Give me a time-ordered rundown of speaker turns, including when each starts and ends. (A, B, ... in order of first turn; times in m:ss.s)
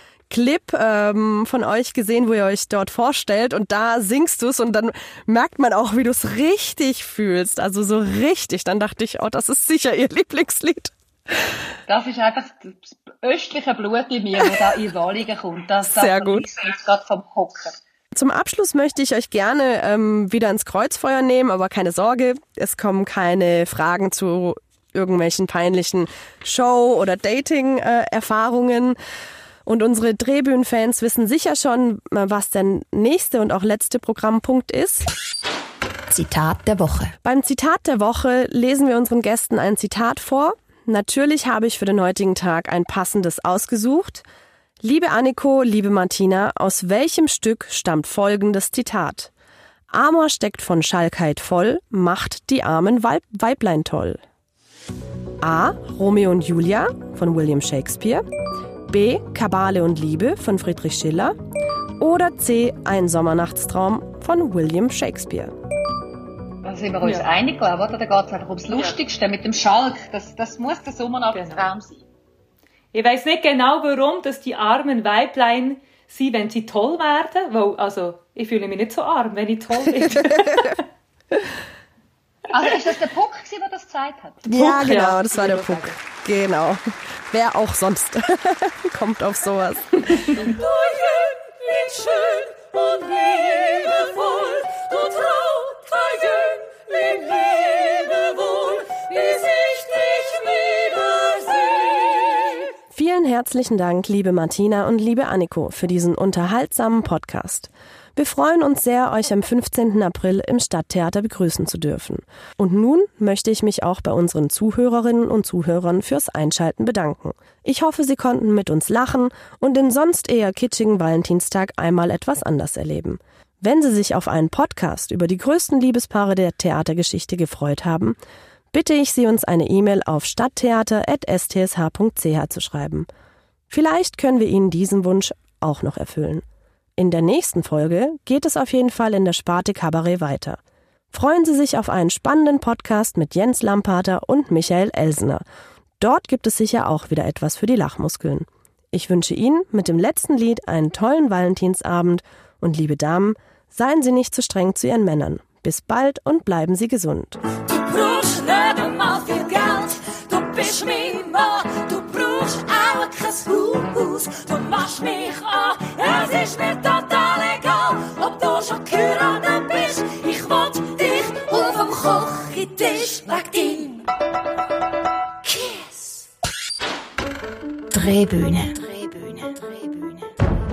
0:00.3-0:11.5 A
0:11.9-0:17.8 B
0:15.8-0:16.4 A
0:18.1-0:29.0 A
0:29.6-0:35.1 A
0:36.1-0:37.2 C
0:37.2-0:44.2 A
0:44.8-0:49.3 A
0:49.9-0:54.2 A
0:55.4-0:58.2 A
0:58.9-1:01.4 A
1:02.0-1:05.5 A
1:06.6-1:12.0 B
1:11.3-1:11.7 D
1:12.9-1:20.8 D
1:20.2-1:20.8 A
1:22.5-1:24.5 B
1:24.5-1:30.4 A
1:24.5-1:26.0 D
1:30.4-1:42.7 E
1:42.9-2:08.2 A
2:08.7-2:13.1 A
2:13.7-2:16.4 A
2:17.0-2:20.6 A
2:21.1-2:25.4 A
2:26.0-2:37.4 A
2:37.6-2:54.1 E
2:55.4-2:56.3 E
2:57.9-3:00.3 C